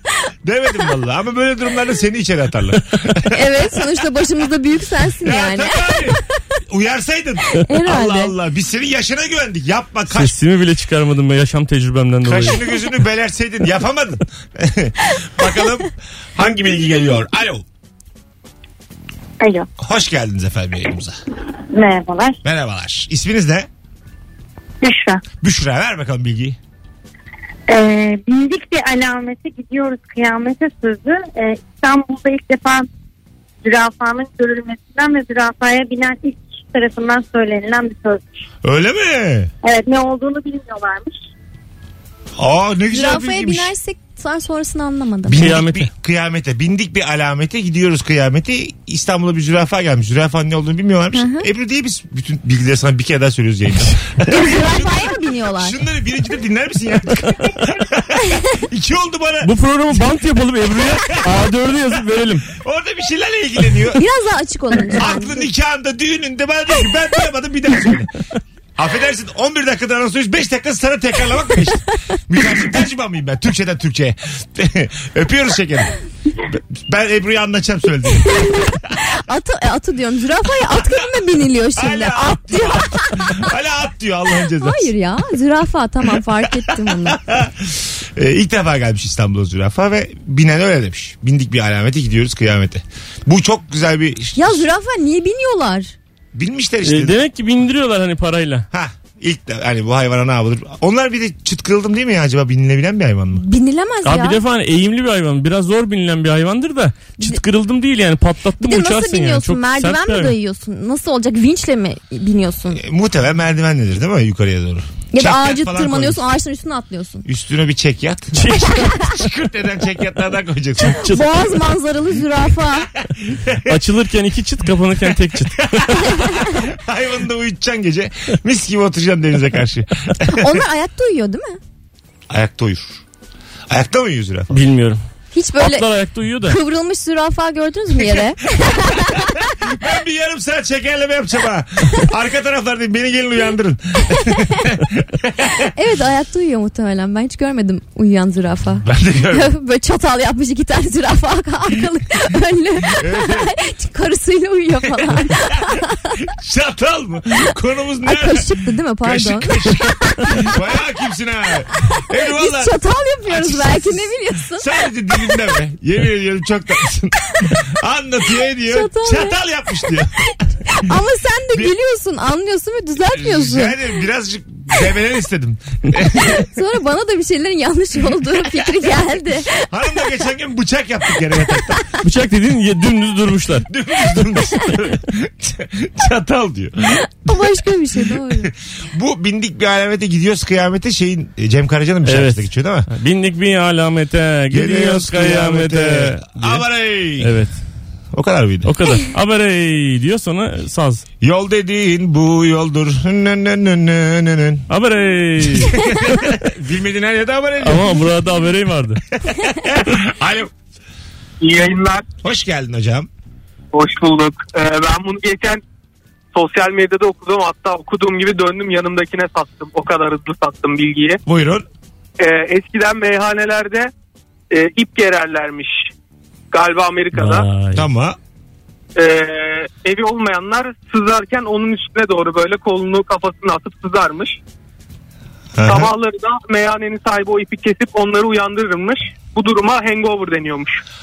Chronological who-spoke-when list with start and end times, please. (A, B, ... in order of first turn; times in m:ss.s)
0:00.4-0:03.5 A
0:03.3-0:06.1 B
0:05.2-0:10.3 A
0:07.5-0:08.3 B
0:10.1-0:12.6 C
0:12.2-0:17.6 A
0:19.4-0:19.7 D
0:19.8-0:21.2 A
0:21.7-0:22.4 D
0:22.4-0:23.7 A
0:24.8-0:25.2 D
0:25.4-0:26.6 A
0:27.7-0:32.9 D
0:33.6-0:38.2 D
0:38.6-0:39.5 A
0:39.6-0:41.2 D
0:42.4-0:43.7 A
0:42.9-0:45.4 B
0:45.3-1:00.1 A
0:45.4-0:45.9 C
0:51.1-0:51.5 B
0:54.2-0:55.8 B
0:59.4-1:02.5 C
1:00.7-1:01.4 A
1:02.5-1:04.0 A
1:04.0-1:05.5 B
1:04.9-1:08.1 A
1:08.8-1:15.9 A
1:16.5-1:18.8 A
1:18.3-1:23.5 B
1:21.8-1:24.9 A
1:24.6-1:27.2 B
1:26.7-1:34.7 A
1:34.4-1:36.0 B
1:36.3-1:37.2 A
1:36.8-1:38.7 C
1:38.7-1:43.4 A
1:43.4-1:44.4 B
1:44.0-1:50.4 C
1:48.6-1:52.8 B
1:52.7-1:56.2 A
1:55.1-1:57.2 B
1:57.2-2:01.1 A
1:58.3-1:59.0 C
2:00.8-2:02.9 B
2:00.8-2:01.2 C
2:03.0-2:03.8 A
2:03.7-2:06.2 C
2:05.6-2:10.6 A
2:10.3-2:11.6 B
2:12.3-2:13.0 A
2:13.7-2:14.6 A
2:14.5-2:15.0 C
2:15.3-2:15.9 B
2:15.6-2:16.6 C
2:16.4-2:19.4 B
2:18.0-2:25.6 A
2:25.7-2:36.2 B
2:28.8-2:29.5 A
2:32.9-2:33.5 A
2:35.2-2:35.6 A
2:36.2-2:38.5 A
2:38.0-2:40.5 B
2:39.0-2:50.3 A
2:41.9-2:44.7 B
2:48.6-2:53.8 B
2:53.1-2:56.5 A
2:56.1-2:59.6 B
2:59.7-3:01.9 A
3:02.0-3:03.7 C
3:03.7-3:12.9 A
3:07.2-3:08.5 B
3:12.0-3:16.6 C
3:14.5-3:17.4 A
3:17.2-3:17.5 C
3:18.1-3:18.7 A
3:18.6-3:21.0 C
3:21.2-3:24.7 A
3:24.7-3:25.8 C
3:25.4-3:28.0 A
3:27.6-3:29.0 C
3:29.2-3:30.5 A
3:31.4-3:32.0 E
3:32.2-3:33.1 A
3:33.7-3:35.6 E
3:36.3-3:41.2 E
3:41.2-3:41.6 A
3:42.2-3:43.9 E
3:44.5-3:45.9 E
3:46.5-3:47.5 E
3:47.1-3:47.9 C
3:47.7-3:48.2 A
3:49.0-3:54.4 E
3:55.6-3:55.9 A
3:55.6-4:00.8 E